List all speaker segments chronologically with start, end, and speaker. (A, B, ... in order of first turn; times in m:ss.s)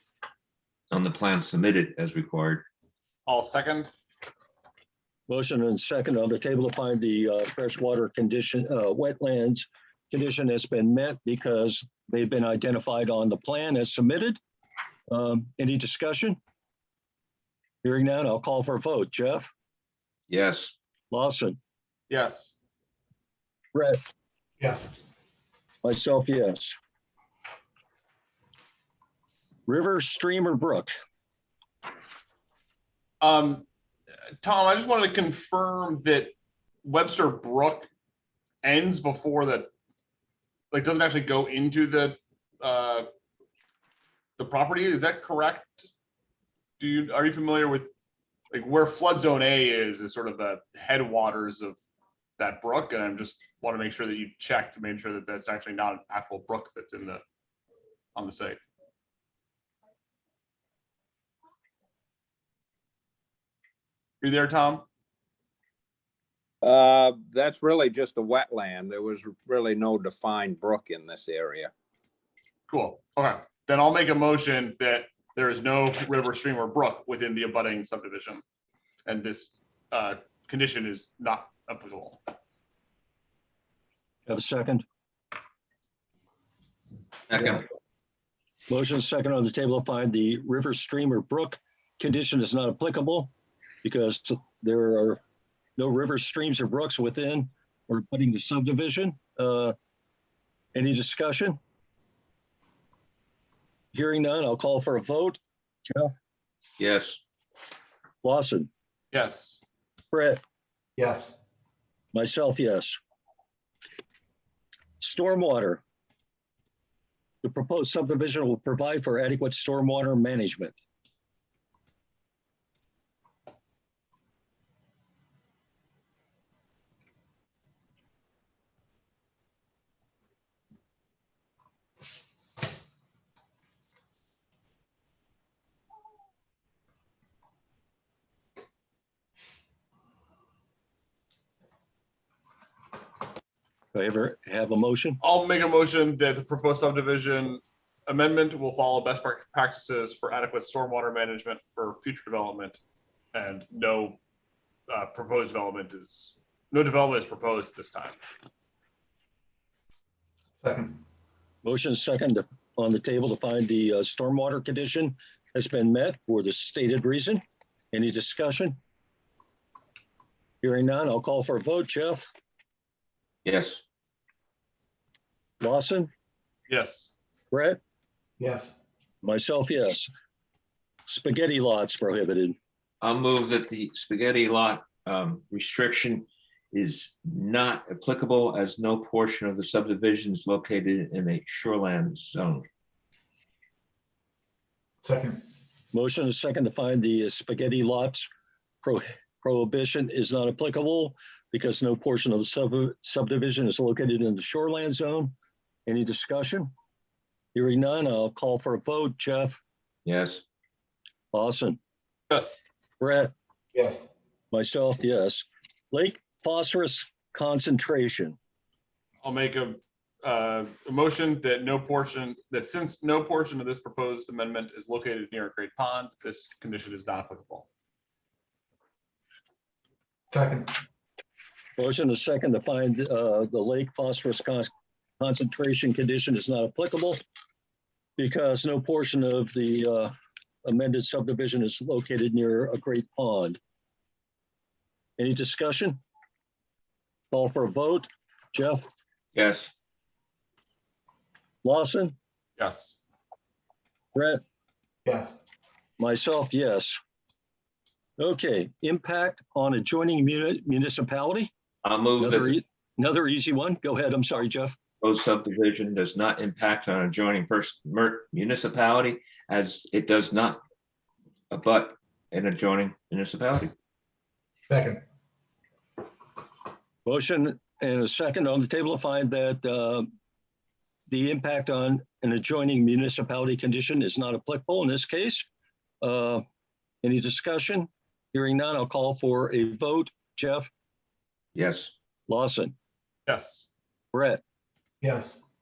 0:00.9-0:02.6 A
0:03.3-0:03.9 B
0:05.3-0:14.4 C
0:15.1-0:16.4 C
0:17.8-0:19.5 C
0:20.3-0:20.7 A
0:21.1-0:21.6 C
0:22.1-0:22.5 B
0:23.7-0:24.0 C
0:24.6-0:24.9 D
0:25.8-0:26.8 C
0:29.7-0:30.9 C
0:33.2-0:33.6 B
0:34.4-0:37.9 B
0:38.6-0:39.7 B
0:40.7-0:43.1 B
0:44.4-0:45.9 B
0:46.8-0:47.9 B
0:48.5-0:51.8 B
0:52.4-0:57.2 B
0:58.2-0:58.6 B
1:04.2-1:04.8 B
1:06.6-1:11.7 E
1:12.7-1:18.4 B
1:19.0-1:22.2 B
1:24.2-1:24.8 C
1:27.3-1:27.6 A
1:28.7-1:35.2 C
1:35.8-1:39.8 C
1:40.7-1:41.6 C
1:43.9-1:46.1 C
1:46.8-1:47.2 A
1:48.2-1:48.7 C
1:49.1-1:49.6 B
1:50.1-1:50.4 C
1:51.0-1:51.3 D
1:52.1-1:53.0 C
1:55.0-1:55.8 C
1:57.4-2:00.7 C
2:23.9-2:25.2 C
2:25.2-2:32.8 B
2:33.3-2:34.2 B
2:34.9-2:38.2 B
2:40.6-2:41.0 D
2:41.6-2:48.8 C
2:50.6-2:52.2 C
2:53.4-2:53.8 A
2:55.6-2:56.1 C
2:56.7-2:57.1 B
2:57.5-2:57.8 C
2:58.4-2:58.8 D
2:59.2-3:00.1 C
3:01.0-3:02.6 C
3:03.0-3:12.7 A
3:15.0-3:15.4 D
3:15.9-3:18.3 C
3:18.8-3:25.3 C
3:25.9-3:26.7 C
3:27.5-3:29.6 C
3:30.0-3:30.4 A
3:31.3-3:31.8 C
3:32.3-3:32.6 B
3:33.0-3:33.3 C
3:33.7-3:34.1 D
3:34.5-3:38.4 C
3:39.2-3:47.7 B
3:50.3-3:50.7 D
3:51.8-3:57.2 C
3:58.2-4:00.1 C
4:00.6-4:03.6 C
4:05.2-4:06.0 C
4:07.3-4:08.9 C
4:09.3-4:09.7 A
4:11.6-4:12.1 C
4:12.6-4:13.0 B
4:14.1-4:14.4 C
4:15.0-4:15.4 D
4:16.0-4:17.0 C
4:18.2-4:21.5 C
4:21.8-4:22.5 A
4:22.2-4:24.8 C
4:25.0-4:30.6 A
4:31.5-4:33.7 A
4:34.7-4:35.0 D
4:37.0-4:40.1 C
4:41.1-4:45.5 C
4:46.0-4:46.4 C
4:47.0-4:50.7 C
4:51.5-4:51.9 A
4:52.3-4:52.7 C
4:53.3-4:53.7 B
4:54.1-4:54.4 C
4:55.0-4:55.4 D